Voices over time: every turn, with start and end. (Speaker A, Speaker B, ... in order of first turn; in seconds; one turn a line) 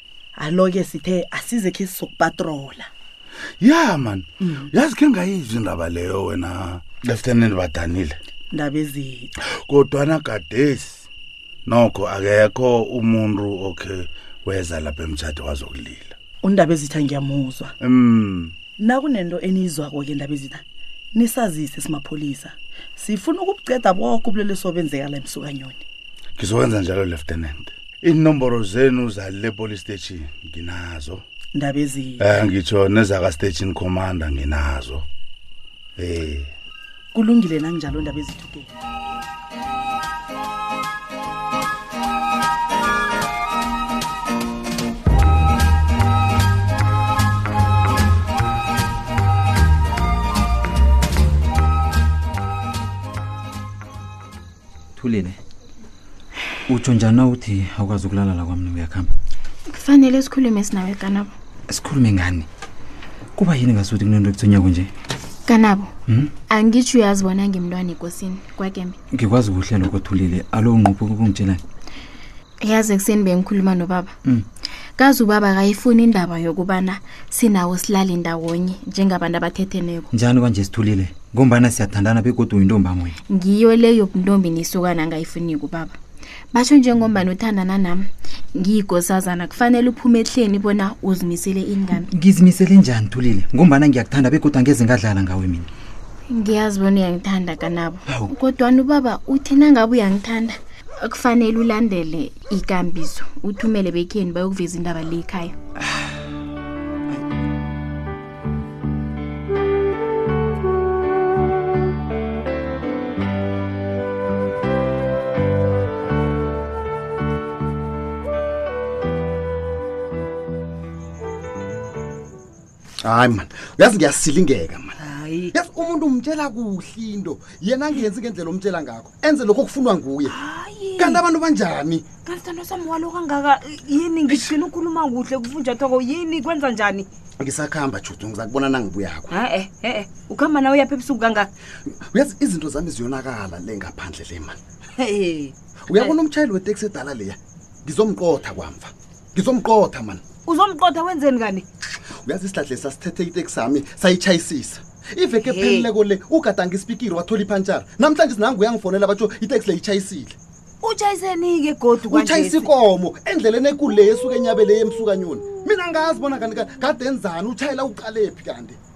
Speaker A: 0.3-2.9
Speaker B: 3.6-8.1
Speaker A: 8.5-9.3
Speaker B: 9.7-11.1
Speaker B: 11.7-16.1
Speaker A: 16.4-17.7
Speaker B: 17.8-18.6
Speaker A: 18.8-20.6
Speaker A: 21.1-25.8
Speaker B: 26.4-31.2
Speaker A: 31.5-32.2
Speaker B: 32.2-35.0
Speaker B: 36.0-36.5
Speaker A: 37.1-38.7
Speaker C: 55.0-55.4
Speaker C: 56.7-59.1
Speaker D: 59.7-61.3
Speaker C: 61.7-62.5
Speaker C: 63.4-64.9
Speaker D: 65.5-65.9
Speaker D: 66.5-69.0
Speaker C: 69.1-71.6
Speaker D: 72.6-74.1
Speaker D: 75.0-80.1
Speaker C: 80.1-83.1
Speaker D: 83.3-86.0
Speaker D: 86.5-92.1
Speaker C: 92.1-95.7
Speaker D: 96.3-105.5
Speaker E: 123.0-125.0
Speaker F: 125.0-125.5
Speaker E: 125.5-130.3
Speaker F: 130.3-131.1
Speaker E: 131.0-132.1
Speaker F: 132.2-137.1
Speaker E: 134.2-134.6
Speaker E: 137.4-139.4
Speaker F: 139.3-141.5
Speaker E: 142.1-144.6
Speaker F: 145.0-146.1
Speaker E: 145.9-150.2
Speaker F: 150.4-151.7
Speaker E: 152.2-160.3
Speaker F: 155.4-155.9
Speaker F: 160.8-162.7
Speaker E: 162.0-168.8